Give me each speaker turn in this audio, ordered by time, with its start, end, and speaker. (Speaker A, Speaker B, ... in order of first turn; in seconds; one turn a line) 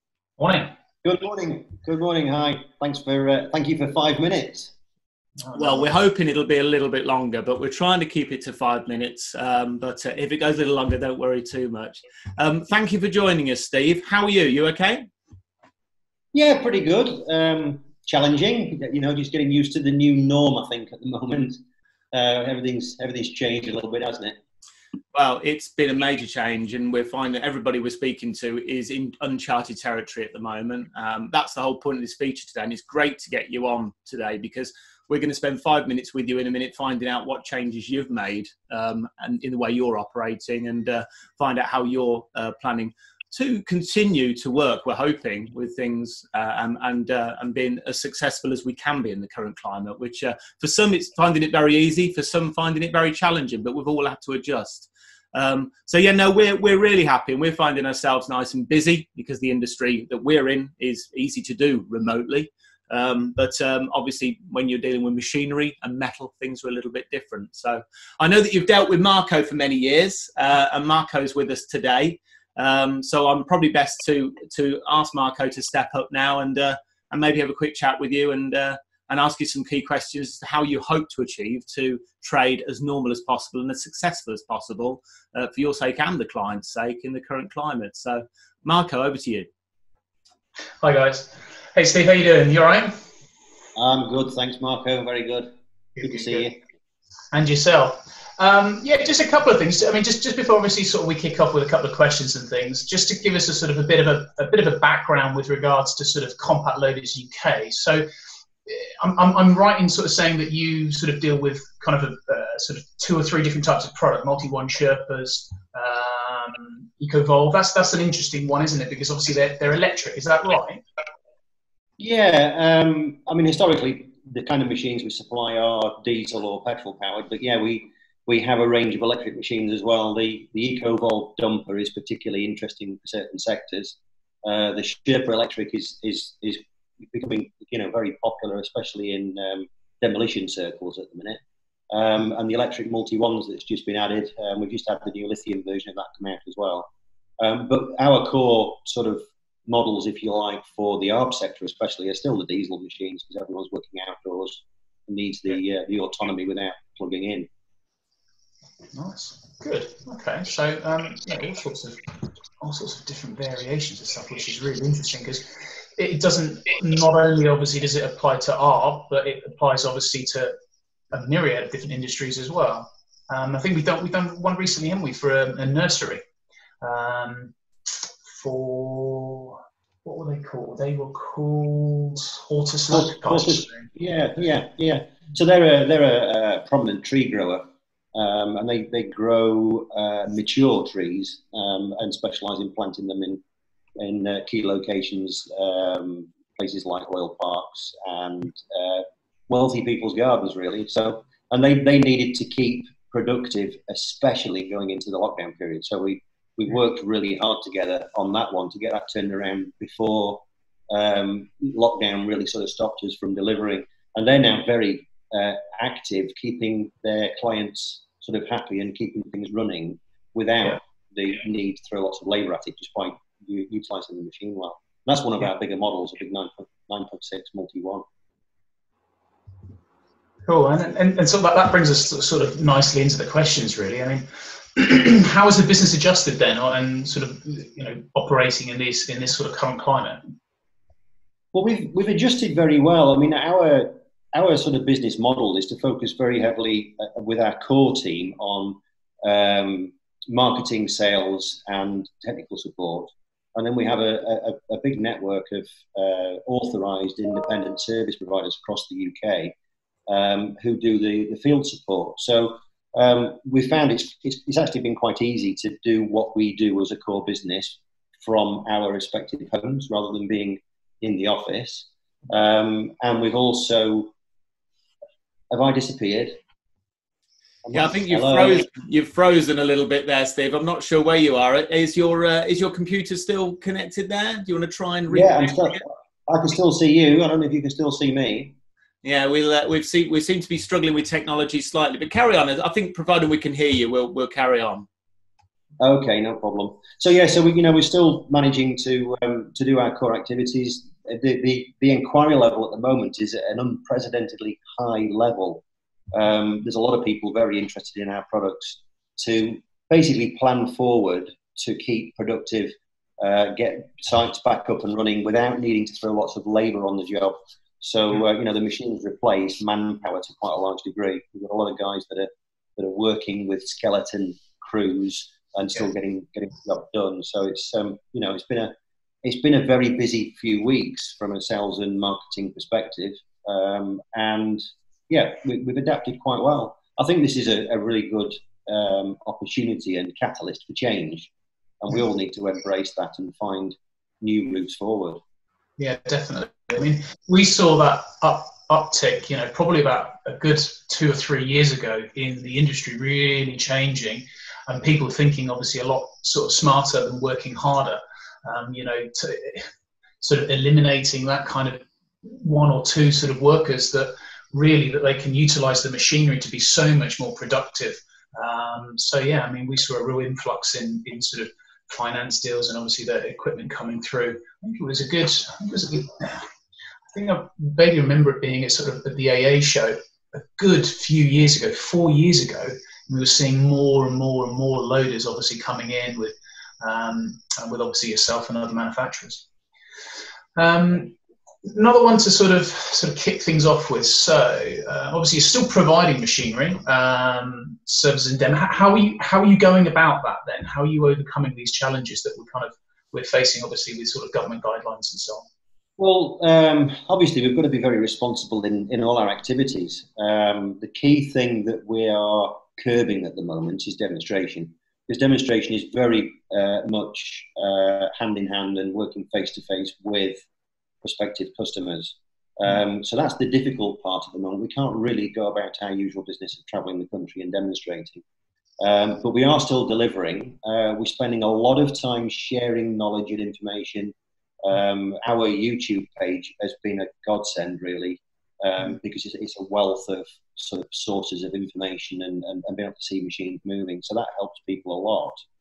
Speaker A: 0.4-0.7
Speaker B: 1.0-4.7
Speaker A: 5.4-5.8
Speaker C: 5.5-15.0
Speaker B: 16.3-21.6
Speaker B: 22.1-24.4
Speaker C: 25.1-89.5
Speaker A: 90.8-92.9
Speaker B: 93.8-95.5
Speaker A: 96.0-96.5
Speaker B: 96.0-96.6
Speaker A: 97.3-108.0
Speaker A: 108.7-120.8
Speaker B: 122.0-141.4
Speaker B: 141.9-157.5
Speaker A: 158.9-162.0
Speaker A: 162.6-165.4
Speaker A: 166.0-170.5
Speaker A: 171.1-176.2
Speaker A: 176.8-177.5
Speaker A: 178.3-183.9
Speaker B: 182.9-187.6
Speaker B: 188.1-193.4
Speaker B: 194.0-228.0
Speaker A: 230.5-240.2
Speaker B: 241.5-259.5
Speaker B: 260.1-274.1
Speaker B: 275.5-276.4
Speaker B: 277.7-278.6
Speaker C: 277.7-285.8
Speaker B: 285.1-288.5
Speaker C: 289.0-294.9
Speaker B: 295.8-328.7
Speaker B: 329.2-345.2
Speaker A: 345.8-359.7
Speaker A: 360.2-376.5
Speaker A: 377.1-389.4
Speaker A: 390.6-391.1
Speaker A: 391.7-405.5
Speaker B: 406.0-420.4
Speaker B: 421.0-428.2
Speaker B: 428.8-445.4